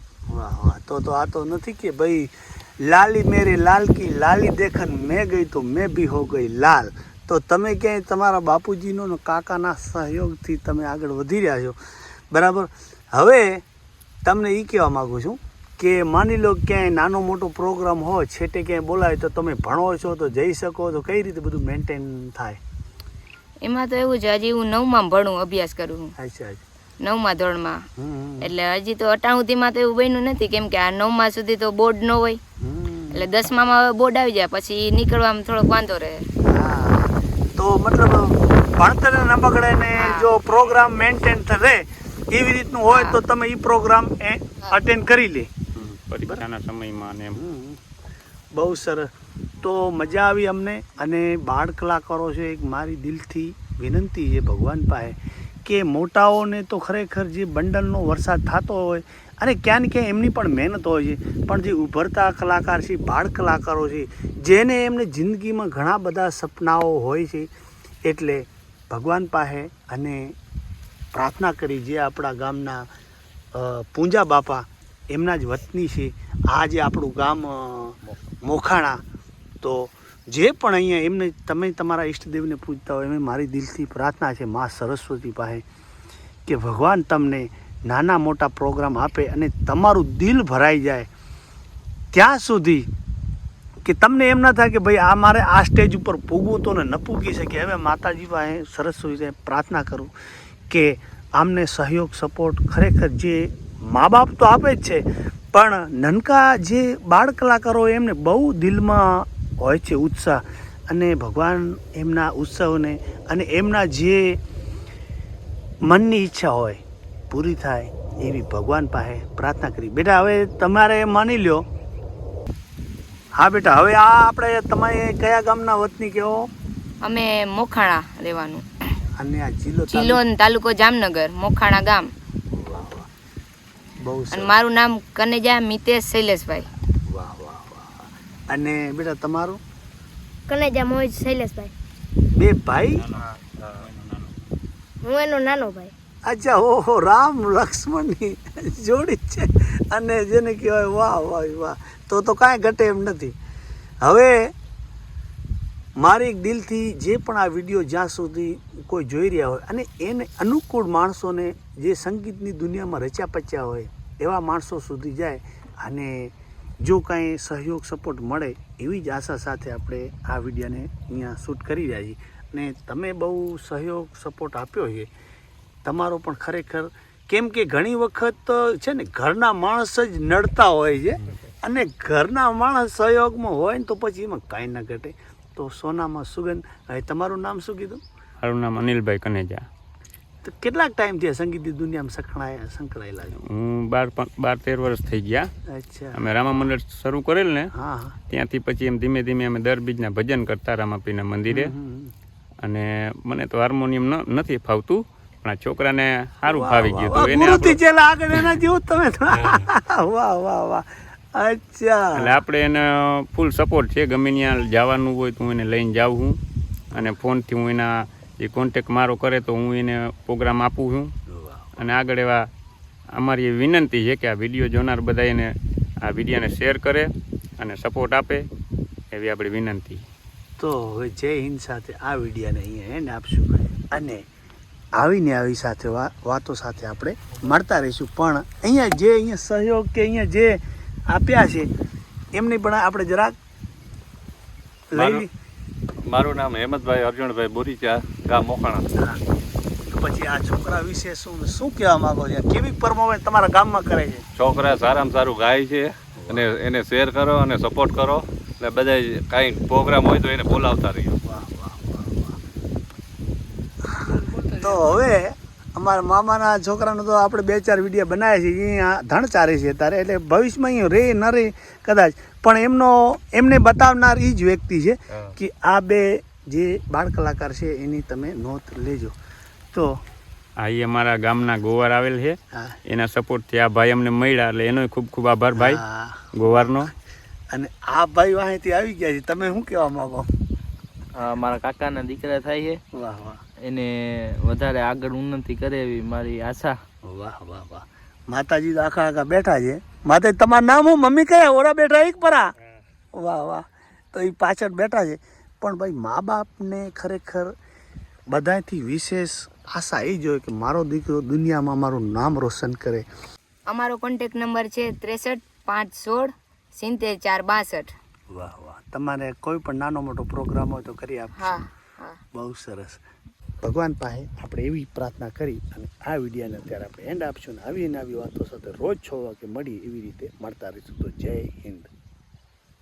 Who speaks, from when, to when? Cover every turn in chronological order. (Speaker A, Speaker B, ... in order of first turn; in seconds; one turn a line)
Speaker A: 0.3-11.8
Speaker A: 12.3-13.6
Speaker A: 14.2-22.6
Speaker B: 23.6-26.1
Speaker A: 26.2-26.6
Speaker B: 27.0-27.8
Speaker A: 28.0-28.5
Speaker B: 28.4-32.4
Speaker A: 32.6-33.3
Speaker B: 33.1-36.2
Speaker A: 36.4-45.5
Speaker B: 40.0-40.3
Speaker B: 42.9-43.2
Speaker C: 45.7-47.4
Speaker A: 47.3-47.8
Speaker A: 48.5-67.5
Speaker A: 68.0-70.4
Speaker A: 71.1-72.9
Speaker A: 73.5-79.0
Speaker A: 79.6-85.6
Speaker A: 86.5-91.1
Speaker A: 92.1-92.9
Speaker A: 93.8-100.1
Speaker A: 100.7-114.4
Speaker A: 115.9-121.6
Speaker A: 123.4-126.5
Speaker B: 127.0-128.6
Speaker A: 129.2-130.2
Speaker B: 129.9-132.1
Speaker A: 132.5-133.1
Speaker A: 134.0-134.6
Speaker B: 134.3-136.7
Speaker A: 137.1-139.6
Speaker D: 140.5-141.7
Speaker A: 142.3-143.0
Speaker C: 143.1-144.3
Speaker D: 145.0-145.9
Speaker A: 146.3-153.3
Speaker A: 154.0-154.5
Speaker A: 156.0-175.1
Speaker A: 175.8-188.0
Speaker C: 188.4-189.6
Speaker A: 190.4-193.4
Speaker C: 193.4-195.5
Speaker A: 195.7-196.7
Speaker C: 196.1-197.7
Speaker A: 197.7-198.2
Speaker C: 198.3-201.7
Speaker A: 201.5-202.1
Speaker C: 202.6-207.8
Speaker A: 206.4-212.4
Speaker C: 209.4-209.7
Speaker C: 212.2-216.4
Speaker C: 216.9-221.1
Speaker A: 221.3-221.7
Speaker C: 221.8-222.5
Speaker C: 223.1-228.4
Speaker C: 229.1-230.0
Speaker A: 230.6-234.2
Speaker A: 235.0-241.7
Speaker A: 242.3-243.3
Speaker A: 244.9-245.3
Speaker E: 244.9-245.2
Speaker E: 246.1-248.9
Speaker A: 248.9-249.2
Speaker A: 249.8-254.2
Speaker E: 254.4-261.2
Speaker A: 256.2-256.5
Speaker A: 261.2-262.4
Speaker A: 263.8-279.1
Speaker A: 279.7-280.0
Speaker C: 280.6-282.4
Speaker A: 282.5-282.8
Speaker C: 282.9-285.8
Speaker A: 285.5-286.9
Speaker C: 286.3-286.9
Speaker A: 287.5-290.3
Speaker F: 291.2-292.8
Speaker A: 292.9-293.4
Speaker F: 293.6-296.7
Speaker A: 297.0-302.5
Speaker A: 303.1-307.5
Speaker A: 308.3-313.1
Speaker B: 313.7-317.9
Speaker A: 318.3-321.6
Speaker B: 321.4-322.2
Speaker A: 322.3-323.0
Speaker A: 323.6-331.9